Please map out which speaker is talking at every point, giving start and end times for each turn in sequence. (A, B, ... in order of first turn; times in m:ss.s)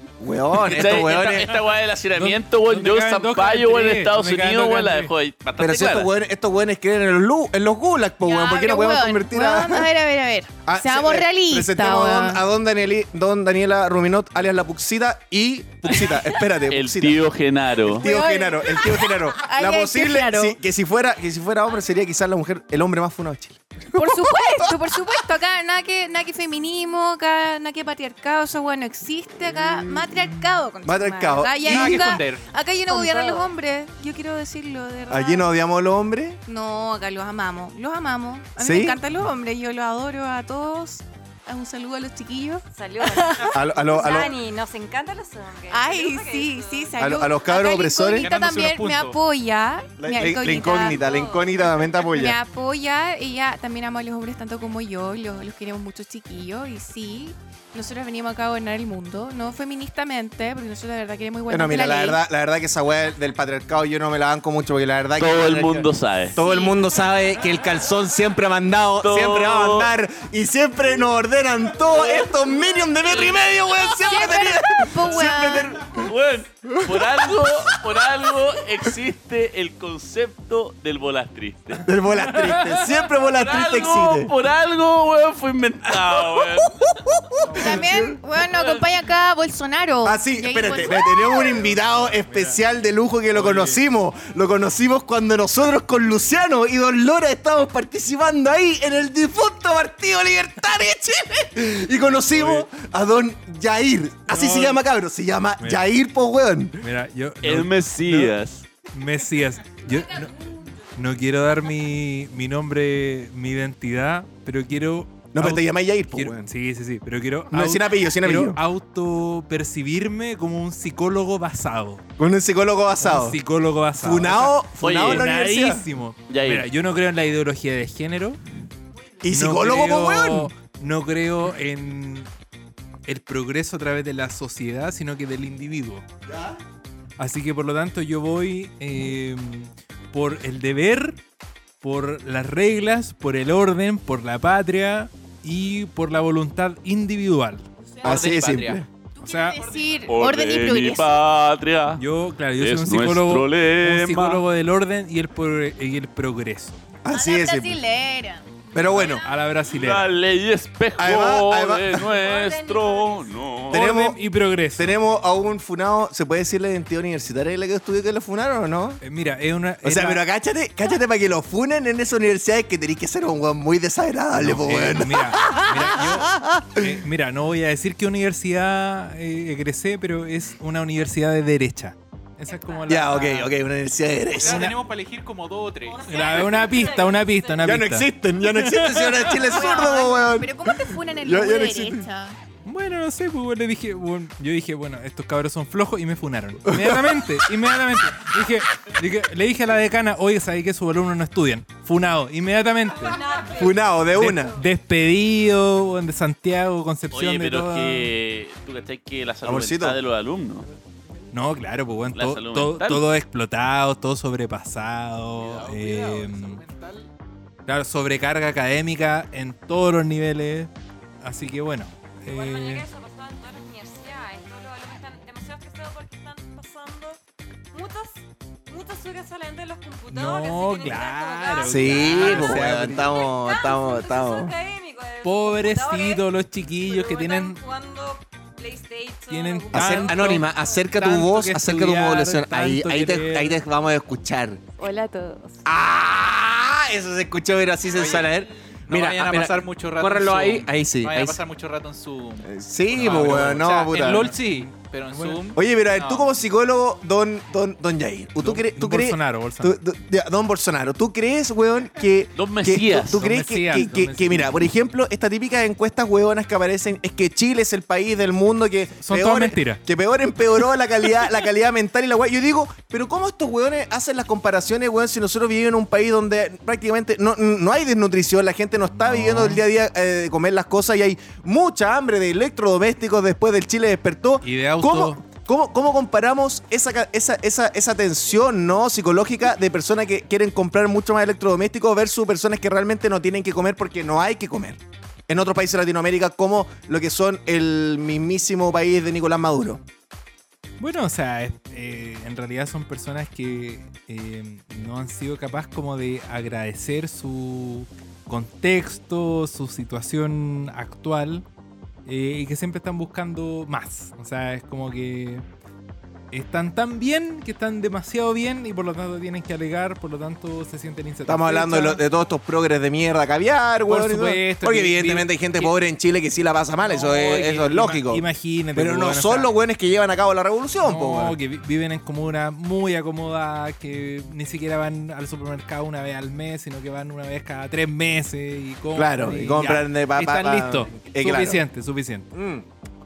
0:00.2-0:01.5 A
0:00.6-0:06.1 B
0:02.1-0:05.1 C
0:05.6-0:09.9 A
0:08.2-0:12.4 D
0:10.6-0:17.2 A
0:16.7-0:18.1 B
0:17.8-0:20.6 D
0:17.9-0:24.8 A
0:23.9-0:35.4 D
0:29.4-0:32.1 A
0:30.9-0:31.6 E
0:31.6-0:32.4 F
0:32.9-0:33.5 E
0:35.1-0:36.4 A
0:36.5-0:44.4 D
0:38.6-0:39.0 A
0:42.7-0:47.1 E
0:43.5-0:44.3 A
0:45.7-0:51.0 D
0:47.0-0:48.3 A
0:48.2-0:49.2 F
0:50.0-0:52.4 A
0:50.7-0:51.5 E
0:52.0-1:02.2 D
1:01.5-1:16.1 A
1:05.2-1:06.4 B
1:06.3-1:06.8 D
1:09.0-1:09.9 B
1:12.8-1:13.8 B
1:13.9-1:15.8 D
1:15.8-1:21.9 B
1:16.6-1:17.7 A
1:21.8-1:24.3 A
1:22.2-1:22.8 C
1:23.1-1:27.0 B
1:26.6-1:28.2 A
1:27.4-1:28.0 C
1:27.6-1:31.6 D
1:28.4-1:28.8 B
1:30.0-1:46.8 A
1:31.4-1:32.6 C
1:33.3-1:33.8 C
1:42.2-1:42.7 C
1:44.3-1:44.8 C
1:45.6-1:45.8 C
1:46.8-1:48.4 C
1:47.4-1:48.6 B
1:48.9-2:02.0 C
1:55.3-1:56.5 A
1:57.5-1:58.6 A
2:02.2-2:03.4 A
2:03.0-2:08.4 C
2:04.0-2:05.8 A
2:04.8-2:05.3 B
2:06.3-2:06.6 B
2:09.2-2:10.5 A
2:09.2-2:12.3 C
2:13.0-2:16.0 C
2:16.3-2:16.6 A
2:17.2-2:21.2 C
2:21.8-2:27.7 C
2:28.0-2:28.8 F
2:28.0-2:28.8 A
2:29.2-2:31.1 D
2:29.2-2:29.6 C
2:30.0-2:32.0 B
2:31.9-2:36.8 C
2:32.6-2:34.4 B
2:37.0-2:37.8 A
2:37.1-2:39.1 D
2:38.7-2:39.2 A
2:38.9-2:40.1 C
2:39.7-2:43.8 B
2:41.0-2:42.1 A
2:42.1-2:43.4 E
2:43.7-2:45.0 C
2:43.7-2:44.2 A
2:44.8-2:49.0 A
2:49.0-2:50.2 C
2:49.8-2:57.0 A
2:54.3-3:03.5 C
3:02.9-3:04.7 A
3:04.4-3:06.1 F
3:04.4-3:04.8 C
3:05.9-3:07.6 E
3:06.0-3:09.4 C
3:07.6-3:12.1 A
3:09.4-3:12.4 D
3:12.6-3:23.2 C
3:16.6-3:17.4 A
3:23.0-3:23.8 E
3:23.5-3:24.6 A
3:24.1-3:28.1 C
3:27.1-3:30.7 B
3:29.4-3:30.0 A
3:31.3-3:36.6 C
3:32.1-3:33.0 B
3:35.4-3:37.1 F
3:37.6-3:42.9 C
3:42.2-3:47.2 E
3:47.7-3:56.2 E
3:50.1-3:53.1 C
3:51.6-3:54.5 A
3:55.2-3:57.6 C
3:56.8-4:00.8 E
3:59.3-4:03.6 C
3:59.7-4:04.6 A
4:04.8-4:05.6 E
4:05.6-4:11.4 A
4:07.9-4:08.3 F
4:08.9-4:16.3 F
4:12.4-4:14.3 A
4:14.0-4:15.4 C
4:15.5-4:59.8 A
4:18.4-4:19.8 C
4:22.4-4:23.2 B
4:23.0-4:24.6 C
4:29.0-4:29.8 C
4:39.0-4:39.6 C
4:44.4-4:45.2 C
5:00.8-5:11.4 C
5:12.0-5:15.4 C
5:16.3-5:22.0 C
5:21.3-5:28.2 A
5:23.8-5:25.7 C
5:26.8-5:29.5 C
5:28.7-5:31.4 A
5:30.8-5:42.3 C
5:39.0-5:41.6 A
5:42.3-5:42.6 A